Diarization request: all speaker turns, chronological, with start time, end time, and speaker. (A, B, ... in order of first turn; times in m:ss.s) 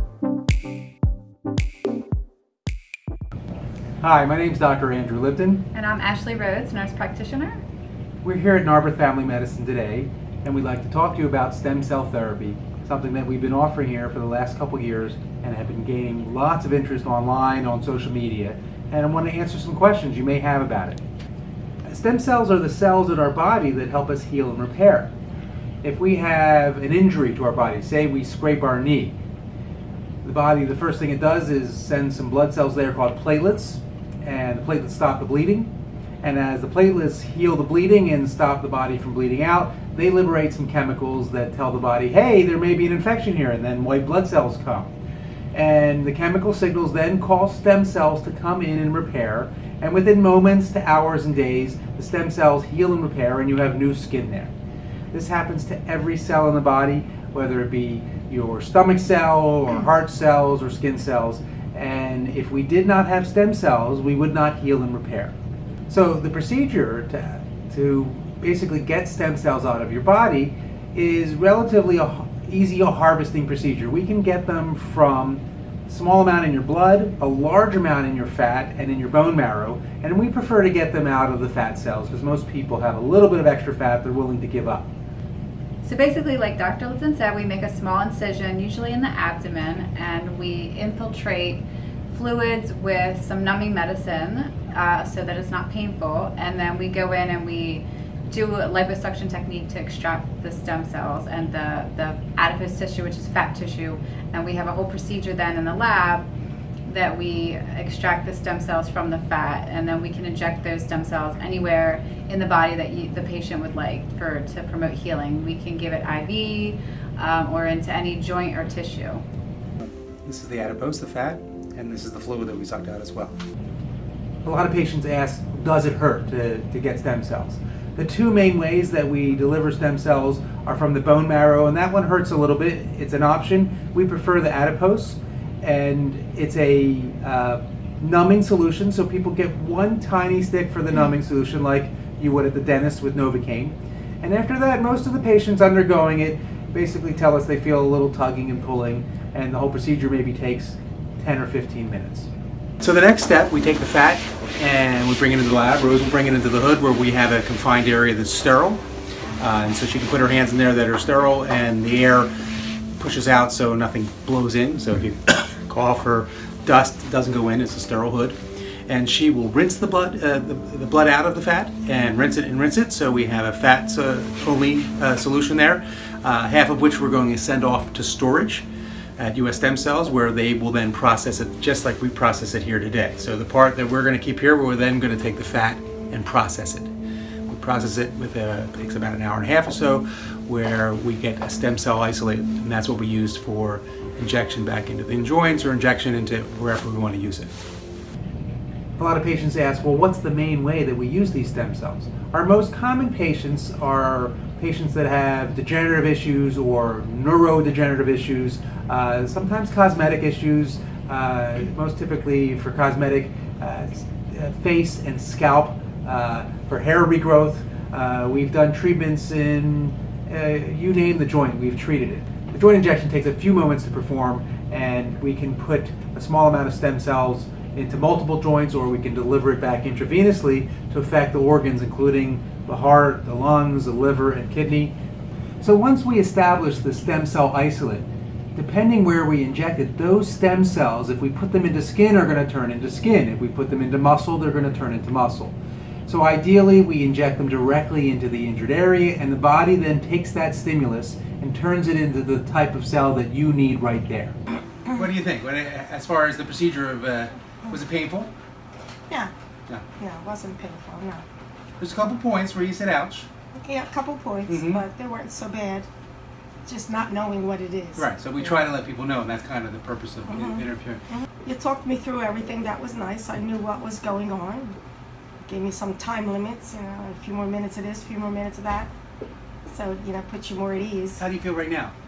0:04.0-0:05.7 A
0:05.7-0:07.6 B
0:08.2-0:21.0 A
0:21.8-0:25.1 A
0:25.8-0:29.1 A
0:30.2-0:35.7 A
0:36.2-0:44.9 A
0:45.5-0:54.5 A
0:55.1-1:05.3 A
1:05.9-1:24.9 A
1:25.8-1:46.2 B
1:46.9-1:59.2 B
2:00.2-2:03.4 A
2:04.4-2:32.3 A
2:32.8-2:38.8 A
2:39.4-2:42.3 A
2:43.0-2:58.7 A
2:59.2-3:06.9 A
3:07.5-3:17.5 A
3:19.0-3:54.9 A
3:55.6-4:05.5 A
4:06.1-4:18.3 A
4:20.0-4:21.2 C
4:21.8-4:23.3 A
4:23.6-4:25.9 C
4:24.5-4:24.8 A
4:26.6-4:28.1 C
4:28.0-4:31.0 A
4:31.1-4:34.8 C
4:35.4-4:38.9 C
4:39.7-4:41.2 C
4:41.2-4:41.9 A